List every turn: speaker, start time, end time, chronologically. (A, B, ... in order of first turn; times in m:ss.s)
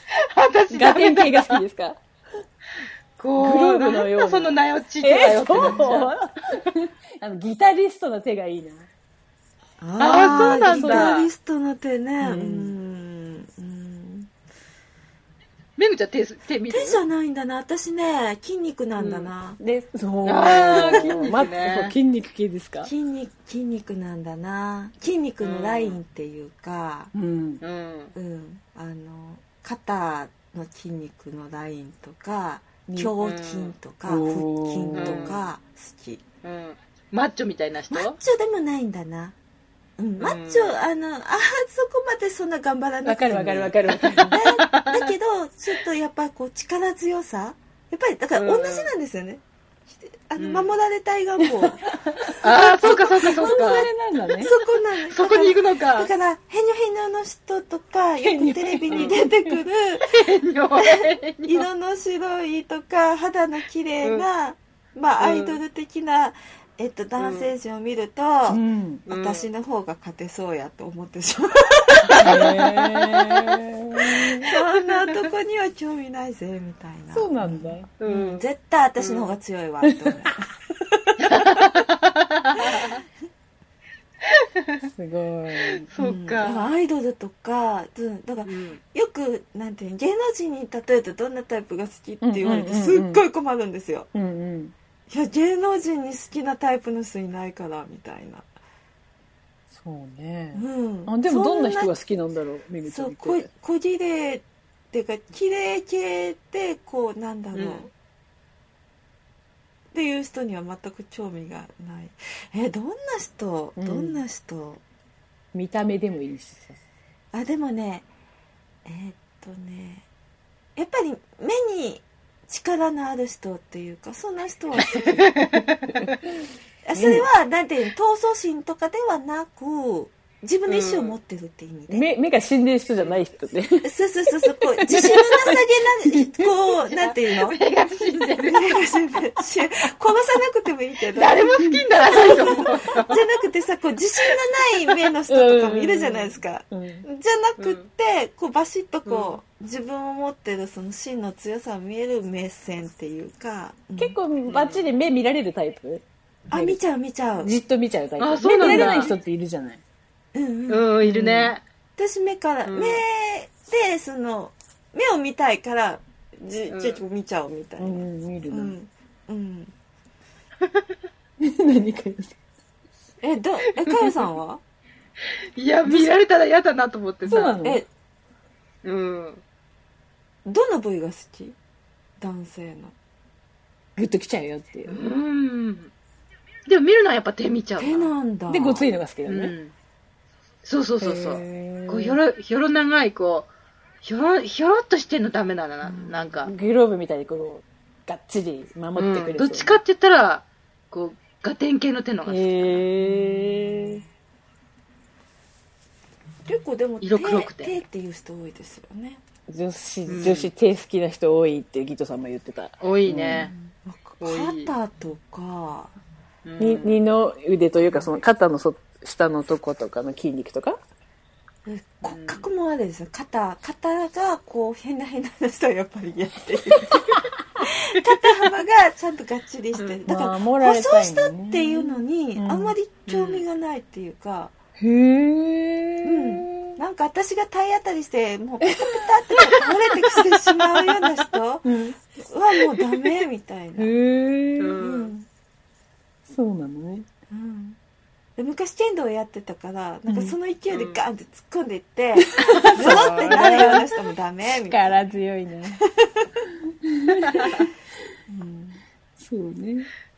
0:00.3-0:01.6 A
0:00.7-0:02.0 B
0:03.2-0:06.1 A
0:03.4-0:08.9 B
0:05.6-0:05.9 C
0:09.8-0:14.3 C
0:10.0-0:11.3 A
0:10.2-0:11.1 B
0:12.2-0:12.7 B
0:15.8-0:17.0 A
0:16.7-0:19.6 C
0:19.0-0:19.3 A
0:19.6-0:22.9 B
0:20.2-0:22.0 A
0:20.5-0:21.3 C
0:22.8-0:27.1 C
0:25.4-0:26.0 A
0:27.1-0:27.6 B
0:27.6-0:28.1 A
0:28.2-0:36.2 C
0:33.0-0:33.8 A
0:34.1-0:35.3 B
0:35.0-0:35.5 A
0:36.4-0:38.2 A
0:37.9-0:39.4 C
0:40.0-0:51.8 C
0:40.2-0:40.8 A
0:43.0-0:44.4 B
0:44.4-0:45.1 A
0:48.4-0:49.0 A
0:50.4-0:50.8 A
0:51.4-0:54.5 B
0:52.4-0:53.6 C
0:52.4-0:53.9 A
0:54.4-1:00.2 C
0:55.1-0:56.1 A
0:58.2-0:59.6 B
1:00.0-1:01.7 A
1:00.8-1:12.6 C
1:05.2-1:05.6 A
1:07.2-1:07.5 A
1:08.5-1:09.0 B
1:09.1-1:09.5 A
1:12.2-1:14.4 B
1:12.2-1:13.0 A
1:14.4-1:20.4 C
1:17.1-1:17.9 B
1:18.0-1:18.4 A
1:19.0-1:19.4 A
1:19.9-1:20.1 B
1:21.2-1:23.0 A
1:25.0-1:25.9 B
1:25.9-1:26.7 A
1:26.0-1:34.1 C
1:28.4-1:28.8 A
1:32.2-1:33.2 B
1:34.1-1:34.7 B
1:35.1-1:38.5 C
1:39.7-1:43.5 B
1:40.5-1:41.9 C
1:42.8-1:47.9 C
1:47.5-1:47.9 A
1:49.9-1:54.8 C
1:53.8-1:54.2 B
1:55.5-1:56.8 B
1:57.3-1:58.1 C
1:58.9-2:00.1 C
2:00.8-2:05.4 C
2:05.2-2:06.1 A
2:06.8-2:12.1 C
2:07.0-2:07.3 B
2:10.7-2:11.2 A
2:11.9-2:13.9 B
2:13.8-2:17.6 C
2:14.8-2:15.6 B
2:16.1-2:16.5 B
2:16.9-2:18.8 A
2:18.4-2:34.2 C
2:21.2-2:23.2 A
2:25.3-2:27.0 B
2:27.6-2:27.9 A
2:29.1-2:29.4 A
2:34.0-2:36.8 B
2:34.5-2:34.9 A
2:36.5-2:37.6 C
2:37.4-2:39.8 B
2:38.2-2:39.1 A
2:38.4-2:39.2 C
2:40.3-2:49.7 C
2:40.7-2:41.6 A
2:42.6-2:43.0 A
2:46.7-2:47.0 A
2:47.8-2:48.8 B
2:51.4-2:52.4 B
2:53.2-2:54.6 C
2:53.9-2:54.2 A
2:55.6-2:57.6 A
2:57.3-2:57.8 B
2:57.3-2:57.9 C
2:58.8-2:59.4 A
3:00.4-3:01.6 C
3:02.2-3:03.0 C
3:04.0-3:05.0 B
3:04.9-3:05.9 A
3:06.7-3:08.1 A
3:07.8-3:08.9 C
3:08.5-3:09.6 B
3:09.3-3:09.7 A
3:10.6-3:13.5 A
3:11.0-3:12.2 B
3:14.0-3:16.5 A
3:15.8-3:16.3 C
3:16.5-3:19.8 B
3:19.0-3:22.9 A
3:22.2-3:24.0 B
3:23.0-3:24.0 C
3:26.5-3:29.2 C
3:27.0-3:27.8 A
3:29.5-3:33.5 B
3:30.1-3:30.5 A
3:32.8-3:33.5 A
3:33.1-3:36.0 C
3:34.2-3:34.7 A
3:36.4-3:37.0 A
3:36.6-3:40.8 B
3:41.6-3:54.5 C
3:42.1-3:42.5 A
3:49.8-3:50.0 A
3:50.1-3:52.8 B
3:53.1-3:53.4 A
3:54.8-3:56.8 B
3:56.0-4:01.7 C
3:58.6-4:01.1 B
4:01.6-4:02.0 B
4:02.3-4:03.9 C
4:03.8-4:04.8 B
4:04.6-4:05.1 A
4:04.8-4:05.3 C
4:06.2-4:07.1 B
4:07.3-4:07.8 C
4:08.4-4:15.1 C
4:10.1-4:10.4 B
4:10.7-4:11.0 A
4:12.2-4:13.9 B
4:12.6-4:13.8 A
4:14.6-4:15.8 B
4:17.0-4:17.7 B
4:18.3-4:18.8 C
4:19.2-4:19.9 B